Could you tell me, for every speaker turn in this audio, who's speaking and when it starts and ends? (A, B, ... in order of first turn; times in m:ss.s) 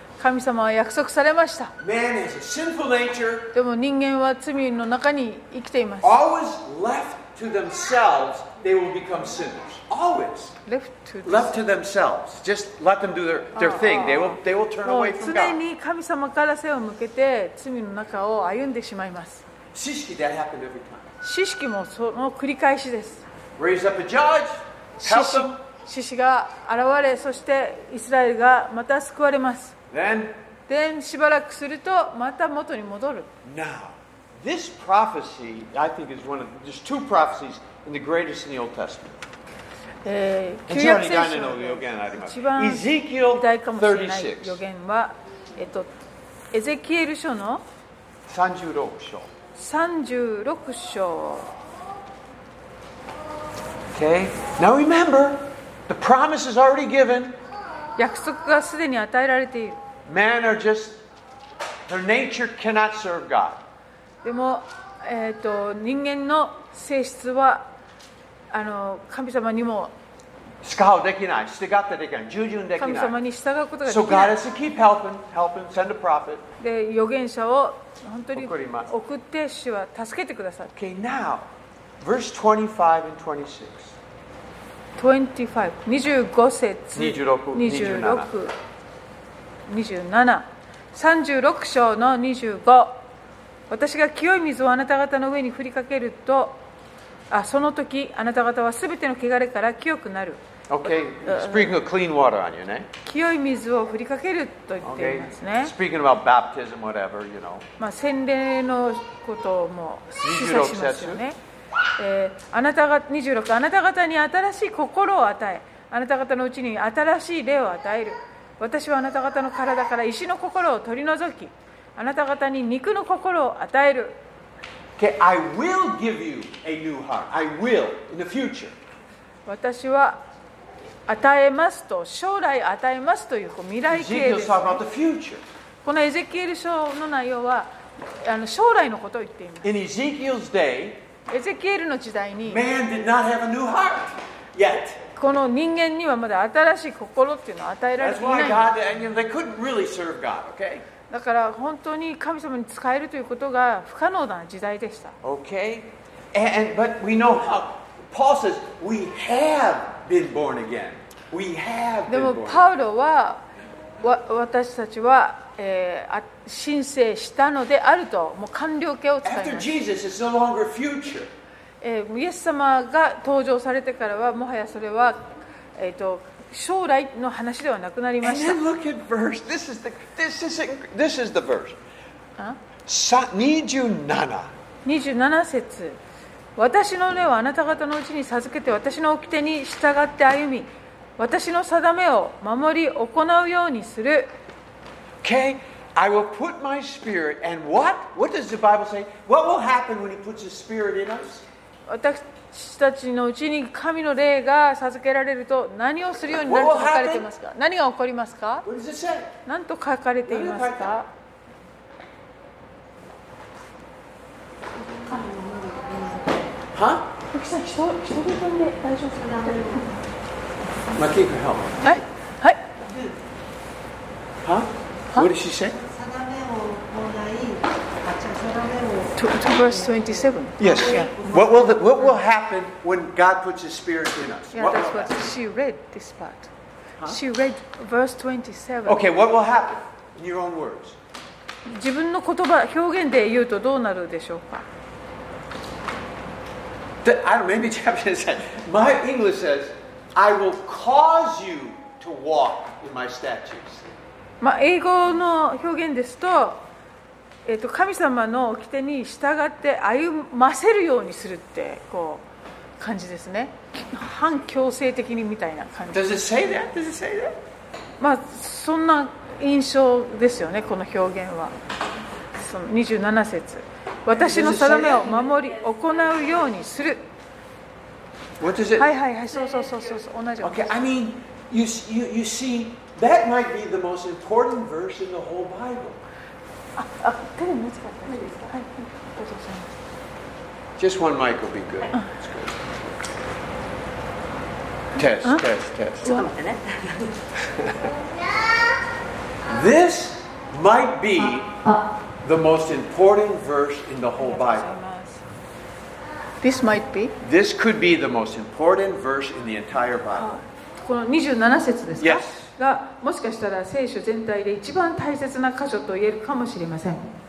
0:00.2-0:01.7 A
0:01.8-0:03.5 B
0:03.5-0:06.2 A
0:06.0-0:10.5 B
0:10.6-0:11.5 A
0:11.2-0:15.6 B
0:13.5-0:19.4 A
0:19.7-0:21.1 B
0:21.2-0:23.2 A
0:23.6-0:25.6 B
0:25.0-0:29.8 A
0:29.9-0:30.3 B
0:30.7-0:33.3 A
0:33.4-0:39.2 B
0:40.0-0:45.9 A
0:40.7-0:44.6 B
0:46.5-0:47.6 A
0:48.3-0:49.3 B
0:49.5-0:51.5 A
0:53.9-0:57.4 B
0:58.0-0:59.8 A
1:00.0-1:01.0 B
1:01.9-1:03.6 B
1:04.2-1:07.7 A
1:08.5-1:09.9 A
1:10.6-1:13.2 B
1:12.8-1:14.4 A
1:13.8-1:16.4 B
1:16.6-1:20.7 A
1:18.3-1:18.9 B
1:20.7-1:21.5 B
1:22.0-1:23.9 B
1:25.0-1:28.5 A
1:26.9-1:28.3 B
1:29.7-1:33.0 A
1:33.7-1:36.6 A
1:37.3-1:40.4 A
1:40.7-1:42.9 B
1:41.2-1:41.7 A
1:43.0-1:45.7 A
1:44.8-1:47.6 B
1:47.8-1:51.4 A
1:50.2-1:51.2 B
1:52.0-2:04.2 A
2:05.0-2:08.7 B
2:09.4-2:10.2 A
2:11.1-2:14.8 A
2:13.9-2:15.4 B
2:15.8-2:19.7 A
2:19.6-2:21.0 B
2:21.3-2:22.6 A
2:22.4-2:25.0 B
2:25.2-2:28.7 A
2:28.0-2:30.8 B
2:31.1-2:35.2 A
2:35.2-2:42.7 B
2:42.1-2:43.4 A
2:44.0-2:49.7 A
2:49.2-2:51.3 B
2:51.8-2:58.6 A
2:58.2-3:01.8 B
3:02.8-3:04.5 B
3:04.8-3:06.0 A
3:06.6-3:14.3 A
3:15.2-3:21.4 B
3:21.9-3:28.6 A
3:26.3-3:27.2 B
3:28.6-3:29.3 B
3:29.4-3:31.1 A
3:30.2-3:31.0 B
3:34.8-3:36.5 C
3:36.7-3:37.1 B
3:37.3-3:39.9 A
3:39.2-3:39.9 C
3:40.9-3:41.9 B
3:41.8-3:42.6 A
3:42.8-3:43.1 C
3:44.4-3:45.8 B
3:45.7-3:51.8 C
3:49.2-3:51.2 A
3:50.6-3:55.3 B
3:54.5-3:56.5 A
3:57.0-3:59.0 A
3:58.8-4:01.0 B
4:01.6-4:04.6 A
4:07.0-4:13.9 B
4:14.4-4:16.6 A
4:17.4-4:22.2 A
4:22.8-4:26.0 A
4:25.9-4:27.4 B
4:28.0-4:31.6 A
4:32.3-4:37.0 A
4:34.1-4:35.2 B
4:38.4-4:38.9 B
4:38.8-4:40.8 A
4:40.4-4:46.0 B
4:46.8-4:49.7 A
4:50.8-4:53.0 B
4:54.9-4:56.3 B
4:56.1-4:57.1 C
4:57.4-4:57.9 B
4:59.5-5:04.8 B
5:04.2-5:05.2 A
5:06.4-5:07.1 A
5:07.2-5:10.3 B
5:10.1-5:17.1 A
5:12.0-5:12.5 B